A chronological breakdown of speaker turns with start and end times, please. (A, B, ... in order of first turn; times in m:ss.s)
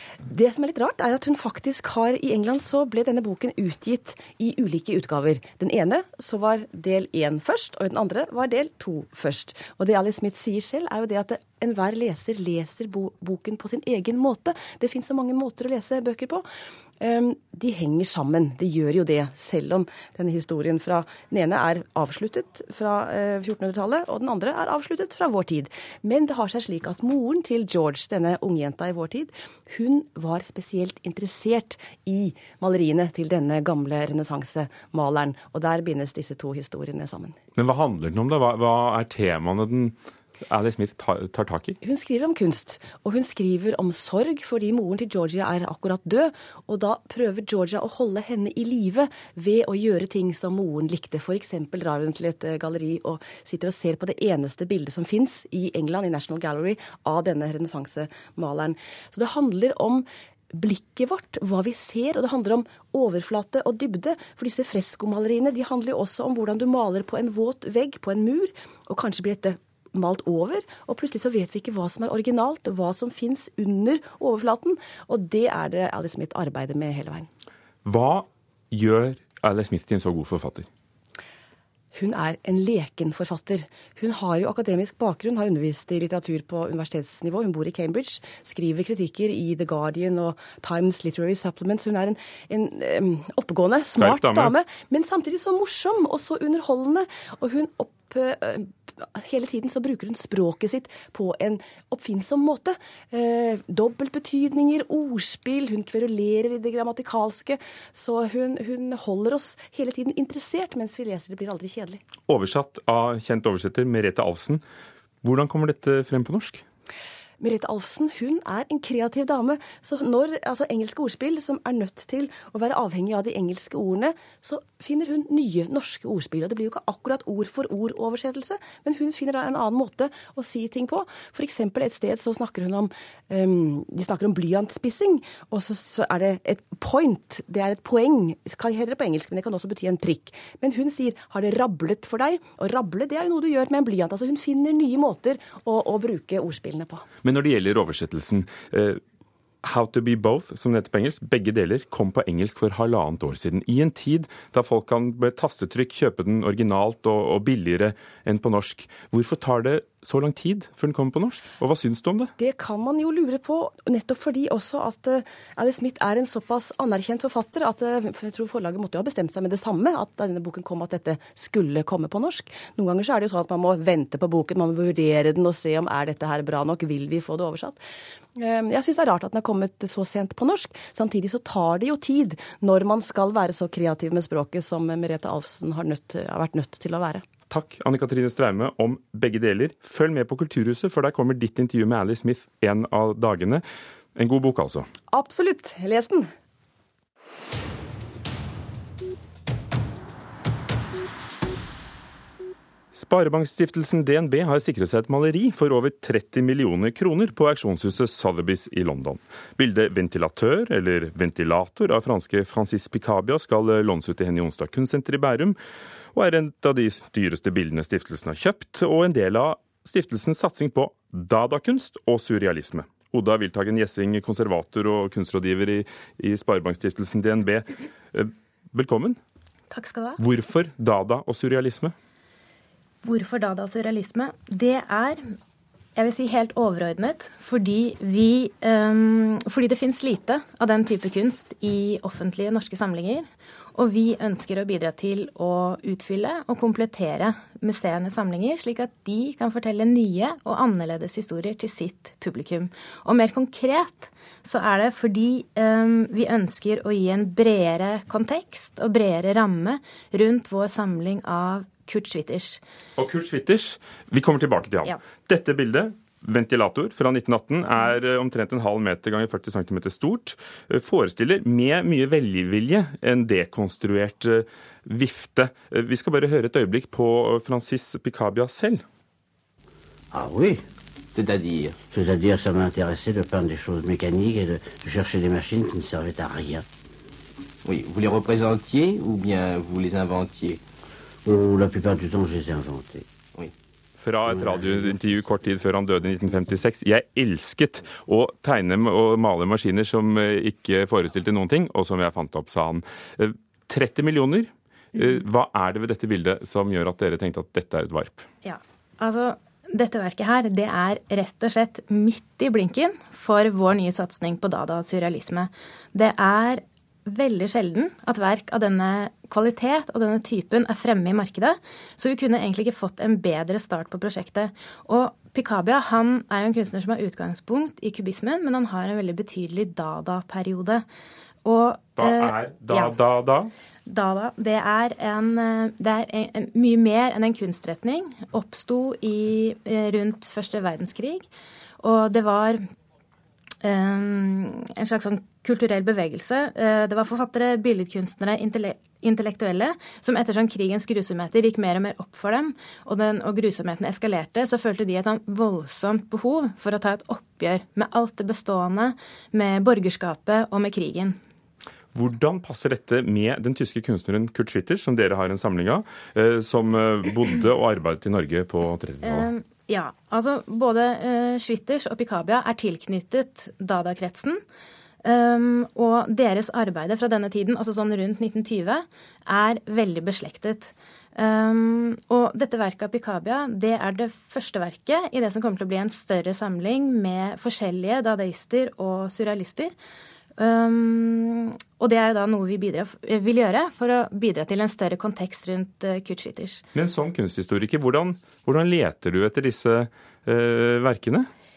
0:00.2-0:16.4 A
0:17.0-0:37.4 A
0:37.6-0:41.8 B
0:41.8-1:17.3 A
1:17.8-1:20.7 B
1:21.9-1:52.0 A
1:34.0-1:34.5 B
1:52.2-1:54.6 B
1:55.2-1:56.6 B
1:57.4-2:27.0 A
2:27.2-2:29.0 B
2:29.6-2:42.3 B
2:42.4-2:57.8 A
2:58.3-3:07.2 A
3:07.5-3:13.6 B
3:14.2-3:14.9 B
3:15.1-3:16.3 A
3:22.9-3:35.6 B
3:36.1-3:49.2 B
3:49.7-3:50.2 C
3:50.2-3:51.9 B
3:53.0-3:55.2 C
3:56.0-4:22.6 C
4:23.0-4:38.8 B
4:40.1-4:40.6 D
4:41.1-4:41.8 E
4:41.8-4:46.6 D
4:47.6-4:50.6 E
4:51.2-4:53.1 D
4:54.0-5:08.3 B
4:54.3-4:54.9 D
5:08.4-5:30.8 C
5:31.4-5:32.9 C
5:32.0-5:33.5 B
5:33.9-5:41.3 C
5:41.8-5:42.7 C
5:43.6-6:01.2 C
6:01.9-6:09.3 B
6:09.0-6:14.4 C
6:15.0-6:29.7 C
6:30.4-6:36.6 C
6:36.7-6:41.3 B